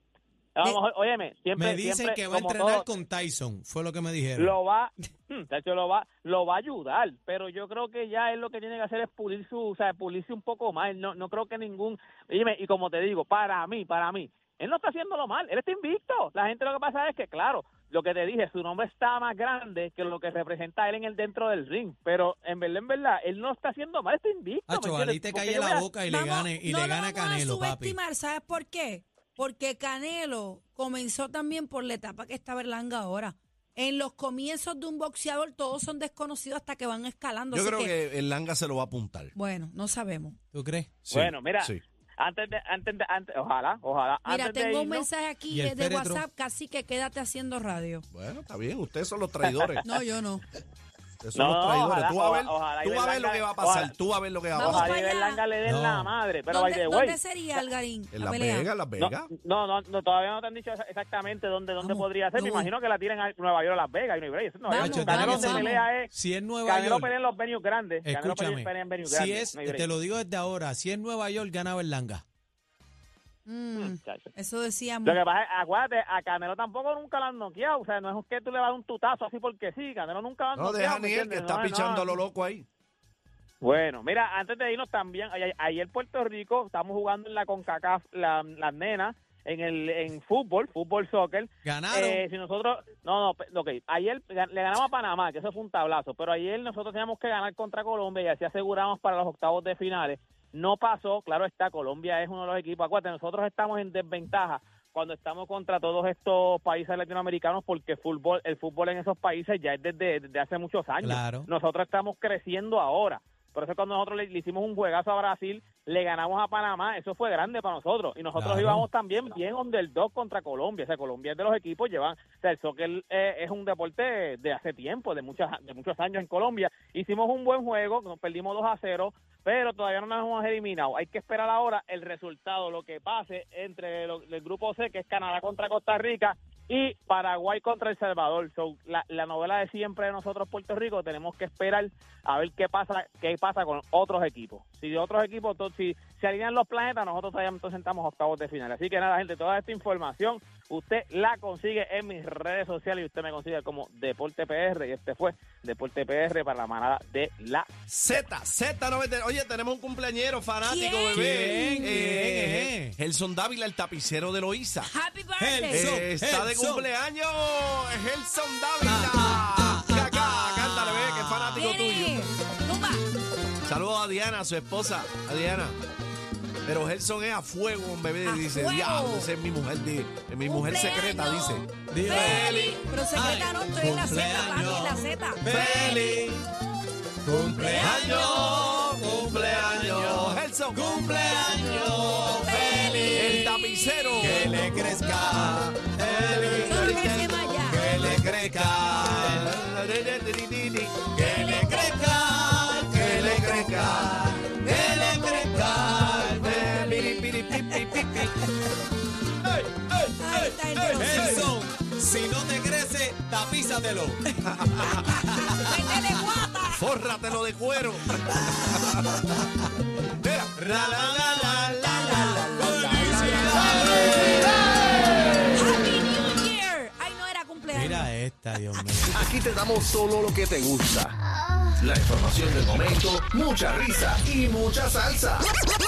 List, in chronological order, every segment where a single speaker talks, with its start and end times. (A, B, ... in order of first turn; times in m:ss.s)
0:00.6-0:02.9 A
0:01.5-0:04.6 B
0:04.4-0:25.9 A
0:24.7-0:28.0 B
0:26.0-0:38.0 C
0:37.5-0:39.3 D
0:39.3-0:40.4 C
0:40.5-0:41.0 B
0:41.1-0:41.8 D
0:41.1-0:45.1 A
0:44.2-0:48.0 C
0:45.5-0:46.2 B
0:48.1-0:49.8 D
0:49.7-0:50.0 A
0:49.8-0:50.4 C
0:51.2-0:54.9 D
0:51.3-0:53.9 A
0:54.5-0:55.4 C
0:54.6-0:57.6 A
0:55.6-0:56.1 B
0:56.5-0:58.7 C
0:58.1-0:59.3 D
0:59.0-1:06.1 A
1:01.8-1:02.7 C
1:04.7-1:05.9 C
1:04.7-1:07.1 B
1:06.6-1:09.9 A
1:08.0-1:12.2 B
1:13.5-1:15.2 C
1:13.7-1:14.3 A
1:15.0-1:22.2 A
1:20.6-1:22.6 D
1:23.6-2:38.2 A
1:31.6-1:32.2 B
1:51.0-1:51.5 B
1:58.3-1:58.9 B
2:37.9-2:44.9 D
2:40.6-2:41.9 C
2:41.1-2:43.0 B
2:44.8-2:45.9 C
2:45.4-2:46.9 B
2:45.7-2:52.2 D
2:48.8-2:51.6 B
2:51.5-2:53.0 C
2:53.6-2:55.8 D
2:56.6-3:02.8 D
2:58.2-2:59.3 C
3:00.4-3:05.4 C
3:01.9-3:02.5 B
3:03.1-3:06.5 B
3:05.5-3:06.2 D
3:07.2-3:13.5 B
3:07.6-3:10.9 D
3:07.7-3:08.3 C
3:12.3-3:14.2 C
3:13.1-3:21.2 D
3:14.2-3:19.5 B
3:16.6-3:17.8 C
3:21.1-3:26.8 B
3:21.2-3:22.1 C
3:22.9-3:24.3 D
3:24.6-3:25.9 C
3:25.9-3:28.3 D
3:26.7-3:28.0 C
3:27.5-3:28.4 B
3:29.9-3:34.3 B
3:30.2-3:31.5 C
3:30.7-3:31.5 D
3:34.3-3:36.9 C
3:34.4-3:35.2 D
3:35.2-3:36.3 B
3:36.7-3:39.2 D
3:38.3-3:38.9 C
3:40.1-3:41.6 D
3:40.5-3:44.6 B
3:41.8-3:44.5 C
3:42.2-3:44.6 D
3:45.5-3:48.1 C
3:47.7-3:49.2 B
3:49.1-3:51.1 E
3:51.8-3:55.4 E